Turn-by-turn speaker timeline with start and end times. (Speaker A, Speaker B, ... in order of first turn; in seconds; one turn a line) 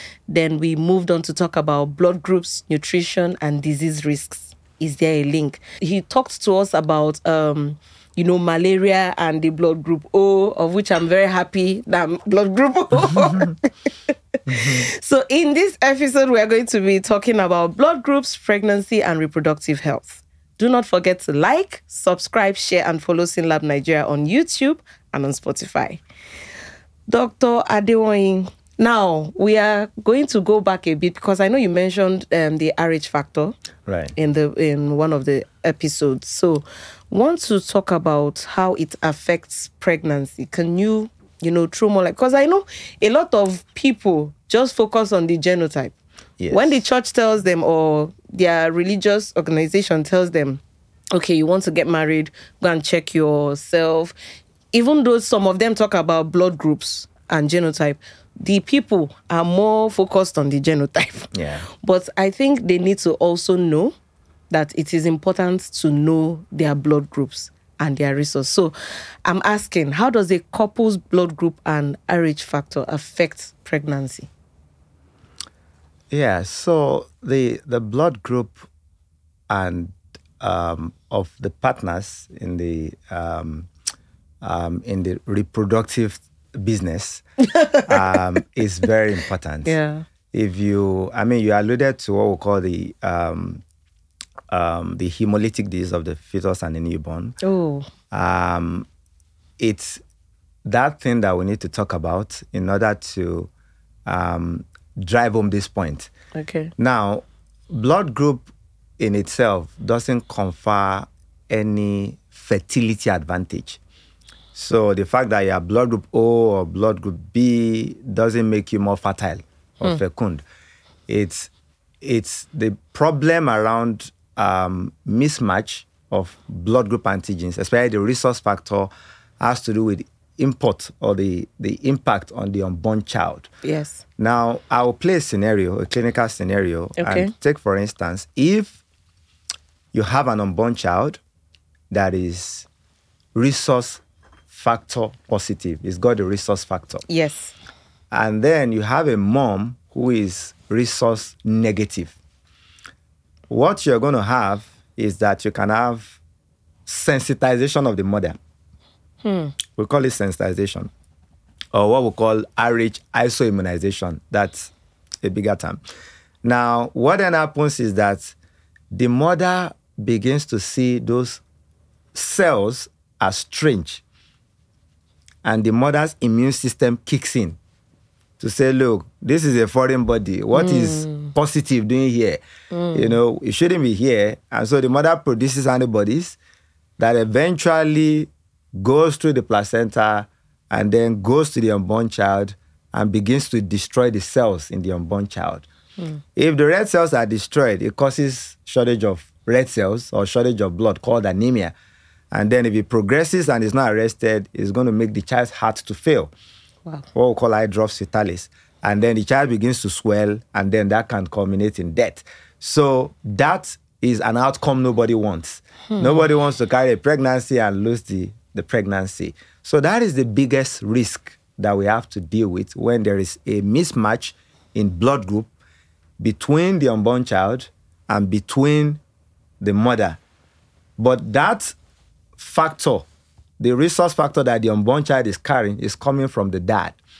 Speaker A: 0.3-26.0
Speaker B: 14.5-14.9
Speaker A: 27.1-33.5
Speaker B: 33.9-34.1
Speaker A: 34.1-45.9
Speaker B: 46.4-46.8
Speaker A: 46.5-50.6
Speaker A: 51.1-54.1
Speaker A: 54.7-61.3
Speaker B: 61.3-61.6
Speaker A: 61.8-63.9
Speaker A: 64.5-68.7
Speaker A: 69.2-74.3
Speaker B: 76.1-78.7
Speaker B: 79.5-83.7
Speaker B: 84.4-87.2
Speaker B: 87.8-89.7
Speaker A: 89.6-90.0
Speaker B: 90.3-93.6
Speaker B: 94.5-97.4
Speaker A: 97.4-97.9
Speaker B: 98.1-98.8
Speaker B: 99.6-100.0
Speaker B: 100.6-103.5
Speaker B: 104.0-106.1
Speaker A: 106.3-106.7
Speaker B: 106.8-113.8
Speaker B: 114.5-120.4
Speaker B: 121.1-121.5
Speaker B: 122.0-133.5
Speaker A: 133.6-134.0
Speaker B: 134.2-138.8
Speaker A: 137.0-137.3
Speaker B: 139.9-141.2
Speaker B: 141.9-142.7
Speaker B: 143.3-147.0
Speaker A: 147.1-147.5
Speaker B: 148.1-152.2
Speaker B: 153.5-156.2
Speaker B: 156.9-158.4
Speaker A: 159.2-159.5
Speaker B: 159.8-160.9
Speaker B: 161.7-164.7
Speaker B: 165.2-165.8
Speaker B: 166.4-168.3
Speaker B: 168.9-171.4
Speaker B: 172.1-174.0
Speaker B: 175.4-177.6
Speaker B: 178.4-182.4
Speaker A: 180.5-181.3
Speaker A: 182.7-183.2
Speaker B: 182.9-186.4
Speaker B: 187.0-195.6
Speaker B: 196.3-201.7
Speaker B: 202.3-206.3
Speaker B: 207.1-225.5
Speaker A: 215.9-216.3
Speaker B: 226.2-229.0
Speaker B: 229.6-230.2
Speaker B: 231.0-231.7
Speaker B: 232.4-233.1
Speaker B: 233.6-237.0